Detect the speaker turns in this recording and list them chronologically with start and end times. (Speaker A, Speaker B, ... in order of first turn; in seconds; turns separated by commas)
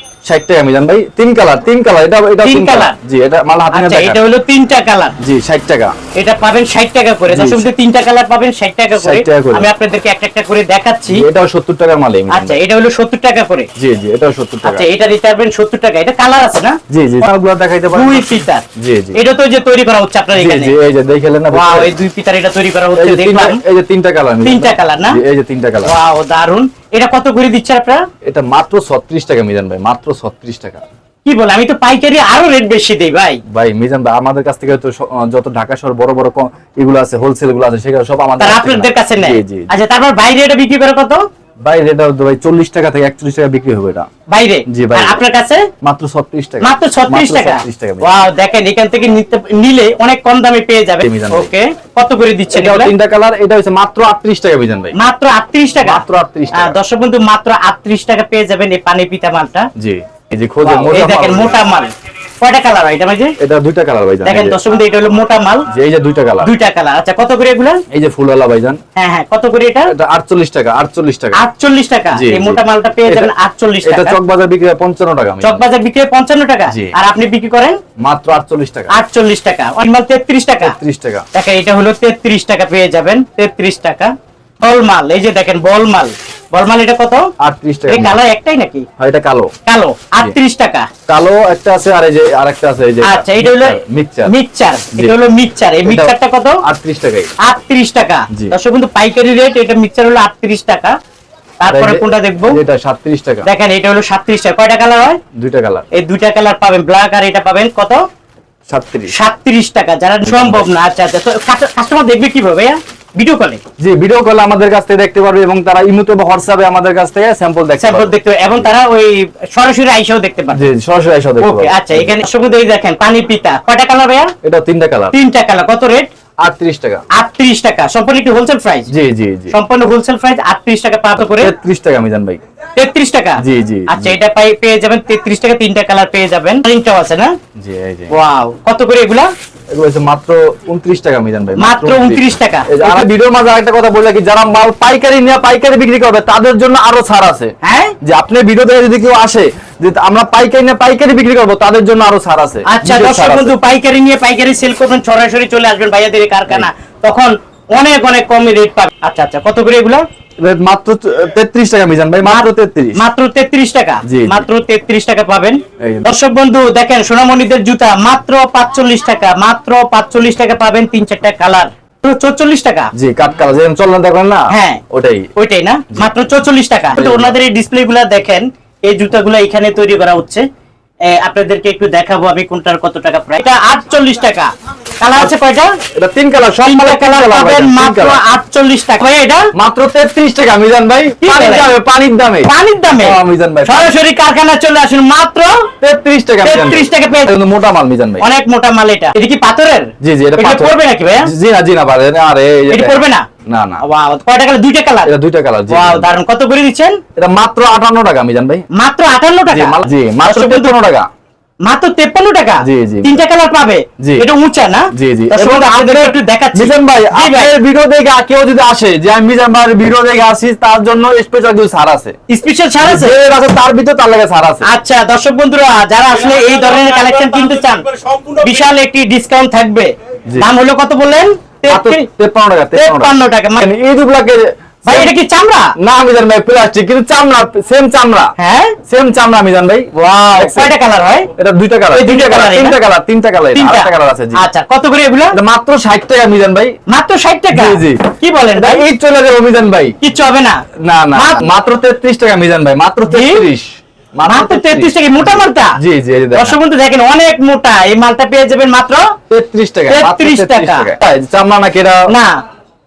Speaker A: 0.2-4.2, Speaker B: 2.4-3.0, Speaker B: 3.7-5.2, Speaker A: 5.2-6.0, Speaker B: 6.2-11.2, Speaker A: 7.3-7.7, Speaker A: 9.0-9.7, Speaker A: 11.1-12.6, Speaker B: 12.3-13.7, Speaker A: 13.8-14.9, Speaker B: 14.6-16.8, Speaker A: 16.9-19.2, Speaker B: 17.9-20.7, Speaker A: 20.4-21.9, Speaker B: 21.5-23.6, Speaker A: 23.0-25.9, Speaker B: 24.4-25.2, Speaker B: 25.8-28.1, Speaker A: 28.2-30.8, Speaker B: 31.2-33.4, Speaker A: 33.5-39.7, Speaker B: 38.4-41.2, Speaker A: 41.6-44.1, Speaker B: 44.3-45.7, Speaker A: 44.7-45.2, Speaker A: 45.8-48.1, Speaker B: 46.6-52.9, Speaker A: 51.0-51.5, Speaker A: 52.5-54.9, Speaker B: 55.0-56.0, Speaker A: 55.8-56.8, Speaker B: 56.5-59.7, Speaker A: 59.8-61.6, Speaker B: 60.6-63.4, Speaker A: 63.4-64.6, Speaker B: 64.2-65.7, Speaker A: 65.7-66.5, Speaker B: 66.4-67.8, Speaker A: 67.9-68.8, Speaker B: 69.0-69.9, Speaker A: 69.9-71.4, Speaker B: 71.3-74.2, Speaker A: 72.1-73.3, Speaker A: 73.8-75.6, Speaker B: 75.4-77.8, Speaker A: 78.0-78.9, Speaker B: 78.9-80.8, Speaker A: 80.6-81.2, Speaker B: 81.3-87.3, Speaker A: 87.4-88.2, Speaker B: 87.9-88.9, Speaker A: 89.0-89.5, Speaker B: 89.7-90.9, Speaker A: 91.1-94.3, Speaker B: 93.0-96.6, Speaker A: 95.9-97.3, Speaker B: 97.4-101.0, Speaker B: 101.6-102.6, Speaker A: 101.7-103.5, Speaker B: 103.5-105.2, Speaker A: 105.4-105.8, Speaker B: 105.9-108.0, Speaker A: 108.7-109.1, Speaker B: 109.1-113.6, Speaker A: 110.2-110.7, Speaker A: 113.8-118.7, Speaker B: 117.8-120.7, Speaker A: 120.5-122.1, Speaker B: 121.4-124.3, Speaker A: 124.4-125.2, Speaker B: 125.1-126.1, Speaker A: 126.4-127.0, Speaker B: 127.1-128.9, Speaker A: 128.9-129.6, Speaker B: 129.5-131.5, Speaker A: 131.2-132.4, Speaker B: 132.8-137.3, Speaker A: 133.4-134.2, Speaker A: 137.6-138.1, Speaker B: 138.1-139.3, Speaker A: 139.7-153.5, Speaker B: 141.6-143.1, Speaker B: 147.6-147.9, Speaker B: 152.7-160.0, Speaker A: 160.4-163.0, Speaker B: 162.2-172.9, Speaker A: 164.1-164.5, Speaker A: 165.8-166.1, Speaker A: 172.9-175.3, Speaker B: 174.5-174.8, Speaker B: 175.4-180.4, Speaker A: 176.9-177.4, Speaker B: 181.1-185.8, Speaker A: 185.9-188.2, Speaker B: 186.7-189.5, Speaker A: 189.5-193.9, Speaker B: 191.2-191.7, Speaker B: 192.4-195.7, Speaker A: 195.8-198.2, Speaker B: 196.4-197.3, Speaker B: 198.2-201.3, Speaker A: 200.0-203.8, Speaker B: 202.7-203.3, Speaker B: 203.8-205.1, Speaker A: 205.1-206.1, Speaker B: 205.7-207.0, Speaker A: 207.2-208.7, Speaker B: 208.7-210.7, Speaker A: 209.5-211.1, Speaker B: 211.7-217.5, Speaker A: 212.6-213.2, Speaker A: 214.0-214.3, Speaker A: 214.9-222.2, Speaker B: 222.3-223.2, Speaker A: 222.8-224.7, Speaker B: 224.7-232.1, Speaker A: 231.7-235.1, Speaker B: 232.8-233.7, Speaker B: 234.9-235.7, Speaker A: 235.8-238.3, Speaker B: 238.4-238.8, Speaker A: 238.9-240.7, Speaker B: 240.0-241.3, Speaker A: 241.4-244.4, Speaker B: 241.9-242.8, Speaker B: 243.5-245.4, Speaker A: 245.3-246.7, Speaker B: 246.9-248.8, Speaker A: 247.5-248.0, Speaker A: 248.6-250.0, Speaker B: 250.0-250.6, Speaker A: 250.8-256.6, Speaker B: 251.2-251.5, Speaker B: 253.1-253.4, Speaker B: 254.3-255.8, Speaker B: 256.3-259.1, Speaker A: 259.3-262.1, Speaker B: 259.9-260.9, Speaker B: 262.1-262.4